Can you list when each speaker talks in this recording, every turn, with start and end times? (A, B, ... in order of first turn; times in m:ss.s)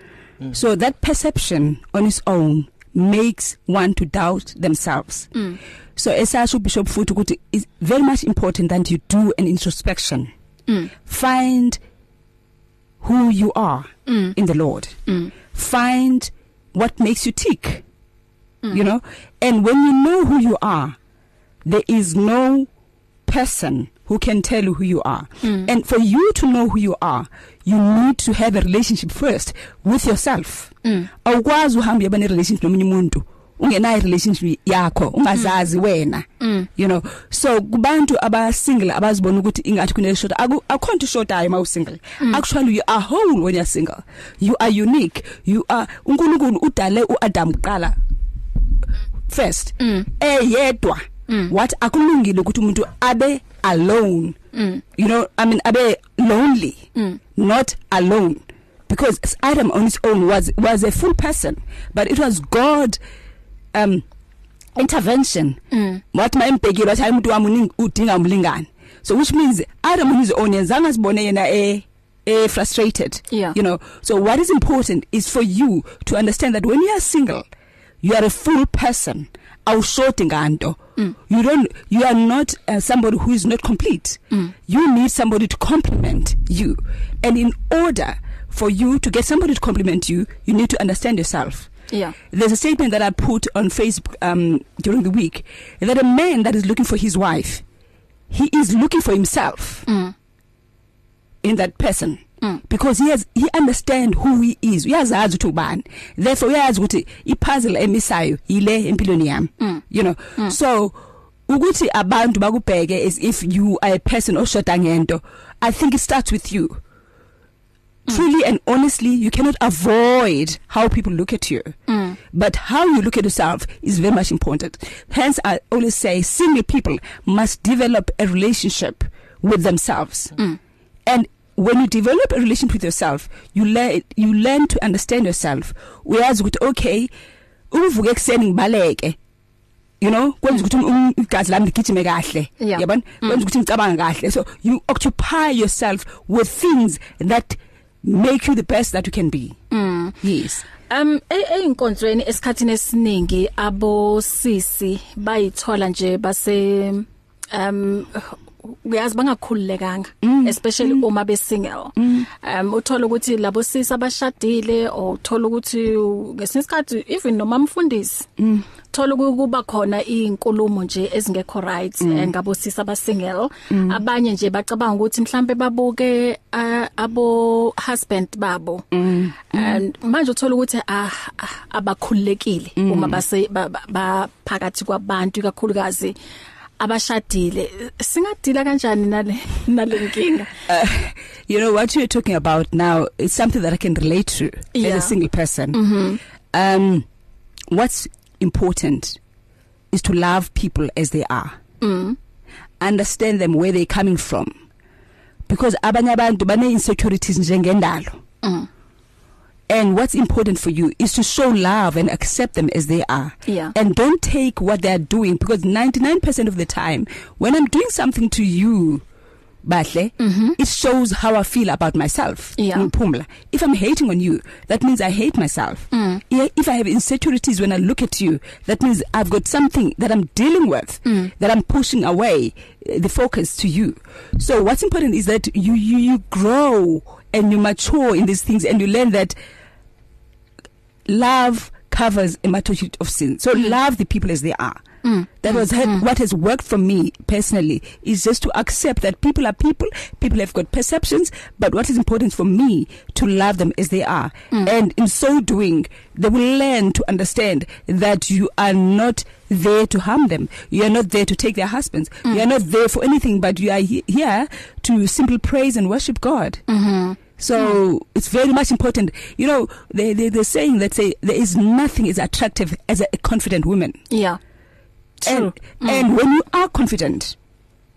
0:00.5-0:05.3 A
0:05.3-0:05.6 B
0:06.0-0:10.3 A
0:11.0-0:11.8 A
0:13.0-0:14.9 A
0:14.1-0:14.3 B
0:15.1-0:15.3 B
0:15.5-0:17.8 A
0:18.7-0:21.0 A
0:21.6-0:22.7 A
0:23.2-0:30.7 A
0:25.4-0:25.7 B
0:30.8-0:31.1 B
0:31.2-0:36.2 A
0:36.4-0:36.7 B
0:36.8-0:48.0 A
0:49.3-0:54.4 A
0:49.8-0:50.1 B
0:54.5-0:54.8 B
0:55.0-0:56.8 A
0:57.4-1:03.0 A
1:03.7-1:04.0 A
1:04.8-1:05.6 A
1:05.7-1:06.0 B
1:06.1-1:17.4 A
1:13.3-1:13.6 B
1:18.0-1:31.7 A
1:31.9-1:32.2 B
1:32.3-1:37.6 A
1:38.3-1:39.8 A
1:39.9-1:40.1 B
1:41.4-1:56.8 A
1:58.1-2:01.7 A
2:01.9-2:02.2 B
2:02.3-2:10.3 A
2:11.1-2:17.1 A
2:17.7-2:19.2 A
2:20.0-2:29.6 A
2:22.6-2:23.4 B
2:29.7-2:30.2 B
2:30.2-2:30.6 A
2:30.9-2:48.3 B
2:40.2-2:41.0 A
2:42.0-2:42.3 A
2:48.4-2:48.6 A
2:48.9-2:58.9 B
2:52.0-2:52.3 A
2:53.7-2:54.0 A
2:58.9-2:59.8 A
2:59.5-3:06.1 B
3:02.8-3:03.2 A
3:06.8-3:10.5 B
3:10.7-3:15.8 A
3:14.7-3:15.1 B
3:15.7-3:16.2 B
3:16.5-3:17.0 A
3:17.7-3:19.2 A
3:19.9-3:21.6 A
3:21.8-3:22.2 B
3:22.8-3:24.5 A
3:25.5-3:28.2 A
3:29.7-3:39.0 A
3:33.4-3:33.7 B
3:39.6-3:59.3 A
3:40.2-3:40.6 B
3:42.6-3:42.9 B
3:45.9-3:46.2 B
3:51.0-3:51.3 B
4:01.1-4:04.8 A
4:05.0-4:06.0 B
4:05.4-4:26.6 A
4:26.7-4:27.7 B
4:27.4-4:34.0 A
4:34.1-4:34.4 B
4:35.2-4:36.0 B
4:35.2-4:37.3 A